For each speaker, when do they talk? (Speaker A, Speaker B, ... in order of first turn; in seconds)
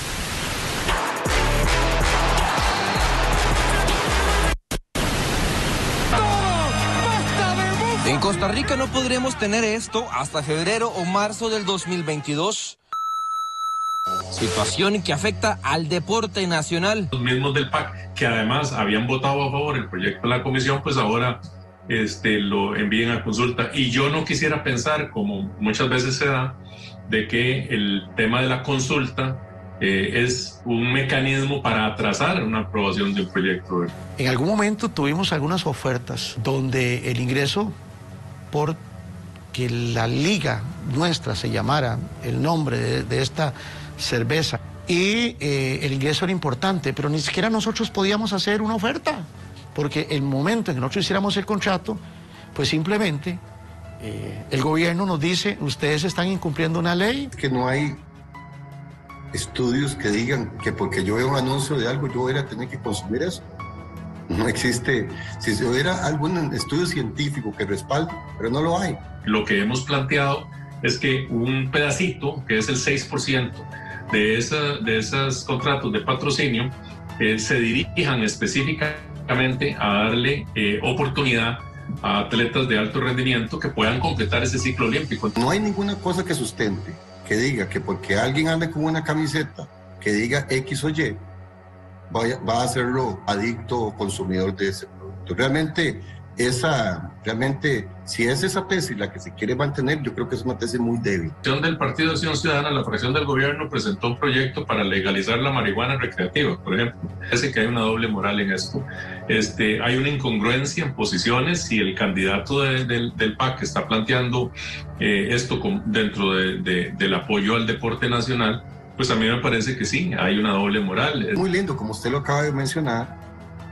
Speaker A: 8.0-12.8, 14.3-17.1
Speaker B: 17.1-33.9, 69.2-85.3, 101.4-121.4
Speaker C: 34.2-37.7, 38.5-38.8, 39.5-52.0, 52.5-53.4, 54.0-57.3
Speaker D: 57.3-58.0, 59.3-63.4, 64.3-69.0, 85.4-91.2, 92.1-101.3, 121.3-123.2